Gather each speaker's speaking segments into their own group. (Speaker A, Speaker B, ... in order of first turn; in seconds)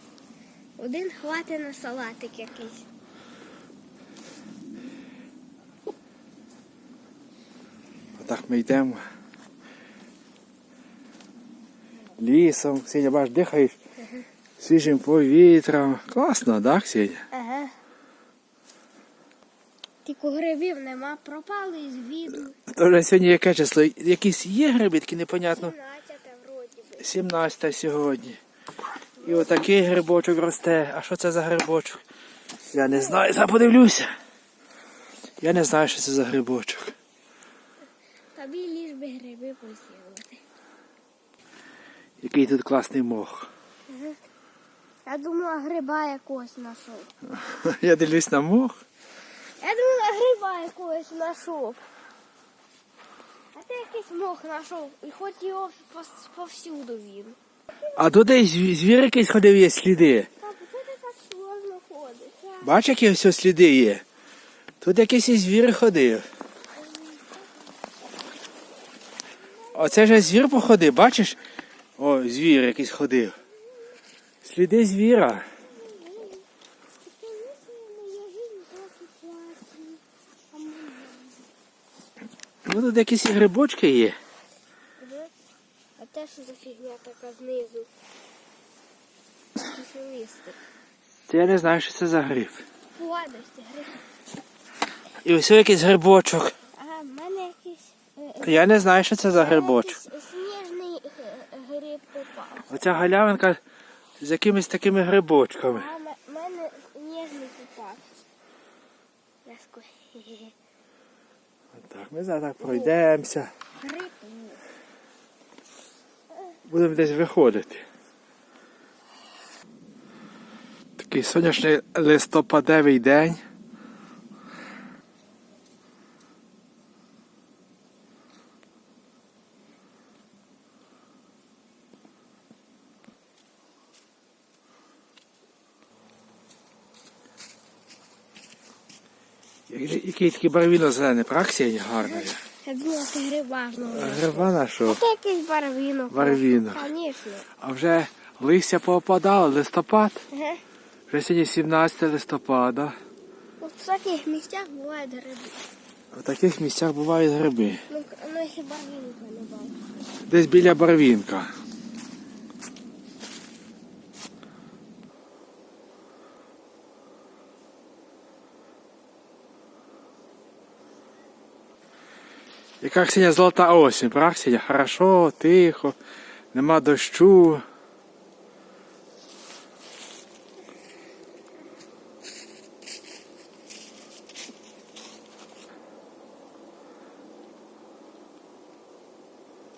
Speaker A: 0.8-2.9, 17.3-17.7, 20.0-22.5, 25.5-27.1, 29.2-29.6, 32.9-33.2, 38.3-40.4, 43.9-44.2, 45.0-47.1, 49.6-51.8, 53.5-57.4, 60.4-62.8, 66.8-67.4, 69.5-70.3, 75.6-76.5, 77.0-81.5, 85.0-85.3, 86.0-87.9, 89.6-90.6, 92.9-94.0, 96.7-98.7, 99.3-102.8, 105.7-108.0, 109.4-110.5, 112.6-112.9, 113.8-114.6, 142.6-147.5, 150.3-150.6, 153.6-155.6, 157.9-159.8
Speaker B: 8.2-9.0, 12.2-13.8, 14.6-17.2, 22.6-25.7, 27.0-28.4, 29.2-32.0, 32.7-34.1, 35.4-36.9, 42.2-43.5, 47.3-48.8, 57.9-60.3, 62.6-64.0, 64.8-66.2, 69.7-71.4, 72.0-73.4, 74.4-75.5, 82.7-84.2, 91.3-92.6, 95.2-96.5, 98.4-100.0, 102.7-103.6, 104.2-105.9, 111.7-113.5, 116.7-117.8, 121.0-123.4, 139.7-142.4, 143.8-145.0, 146.1-146.8, 147.6-150.2, 151.1-152.9, 156.1-157.8, 160.3-161.5, 172.8-175.9, 176.5-177.6